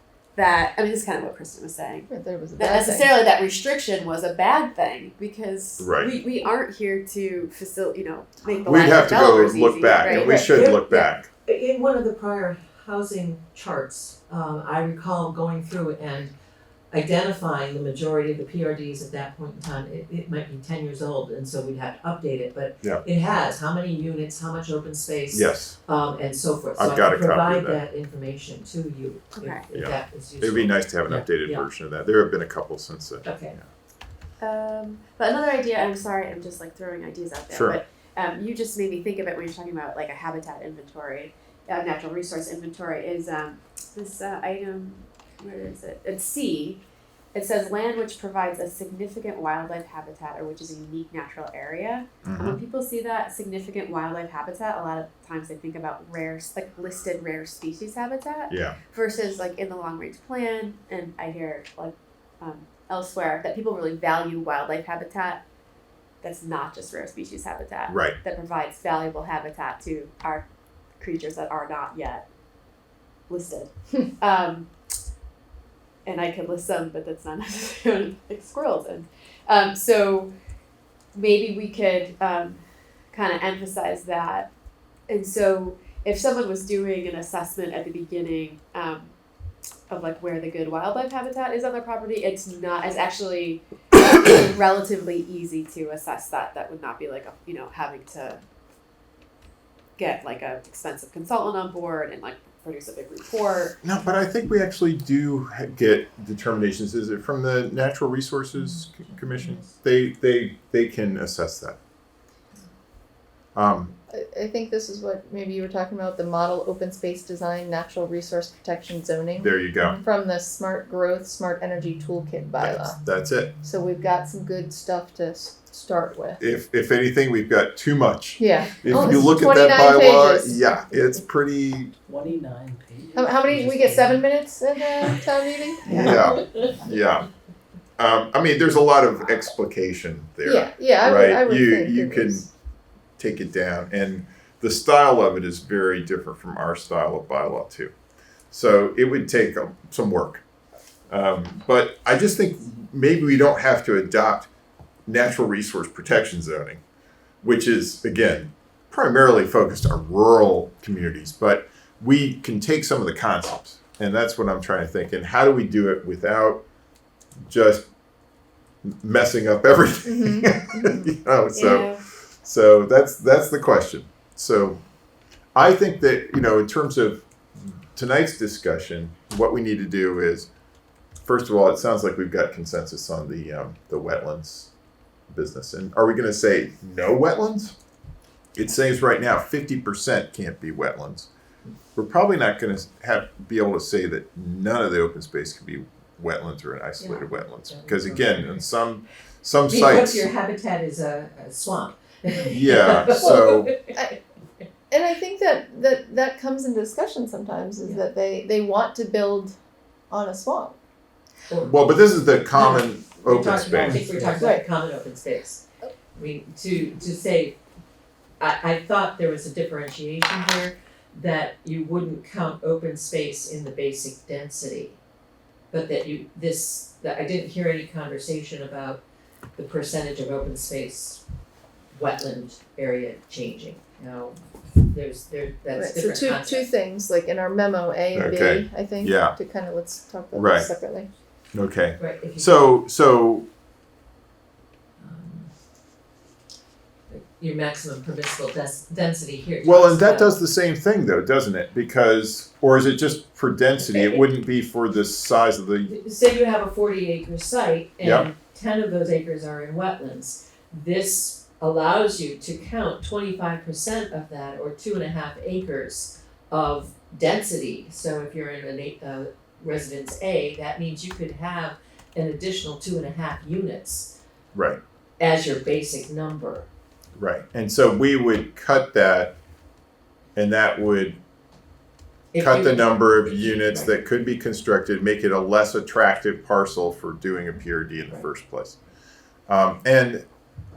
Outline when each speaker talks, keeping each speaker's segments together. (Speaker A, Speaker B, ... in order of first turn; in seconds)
Speaker A: 0.3-11.1, 29.4-29.6, 34.4-46.8, 47.3-65.4, 66.2-70.5, 71.0-72.3, 73.3-74.7, 76.0-80.3, 81.1-84.5, 85.1-89.2, 89.9-98.4, 100.0-103.8, 139.2-139.5, 171.5-172.0
Speaker B: 2.1-3.1, 114.1-123.0, 123.6-126.4, 128.4-131.2, 133.2-136.4, 140.4-142.5, 170.1-171.1, 203.2-204.2, 204.9-209.6, 210.1-210.8, 214.3-214.6, 235.7-241.1
Speaker C: 5.8-6.1, 8.7-11.3, 25.3-25.8, 26.8-27.8, 29.7-33.7, 37.5-37.8, 52.2-52.6, 58.5-58.8, 67.9-68.2, 103.8-111.8, 113.5-113.9, 119.4-120.0, 122.6-123.5, 126.4-131.9, 135.9-137.3, 138.0-142.5, 143.2-147.9, 148.5-150.4, 151.1-154.5, 155.1-156.8, 157.4-166.6, 167.4-167.9, 168.8-174.8, 175.6-180.5, 181.2-184.7, 185.3-187.8, 188.6-191.3, 192.0-200.3, 202.4-203.8, 211.6-214.0, 238.1-239.4, 240.3-240.7, 241.5-243.5, 249.6-255.9, 258.0-258.3, 274.6-274.8, 277.2-279.4, 280.4-281.2, 282.4-288.8, 289.5-290.3
Speaker D: 10.1-10.8, 11.4-16.3, 16.9-31.6, 33.2-33.6, 128.9-129.2, 136.0-136.7, 197.0-198.6, 199.7-204.1, 212.5-215.6, 216.2-217.6, 218.4-225.0, 225.7-229.0, 229.6-231.2, 231.9-236.7, 242.0-242.7, 245.0-245.5, 247.1-250.4, 253.8-254.2, 255.8-274.1, 275.2-276.7, 282.3-284.0
Speaker E: 132.1-134.3, 135.0-135.2, 135.8-136.1, 213.2-214.5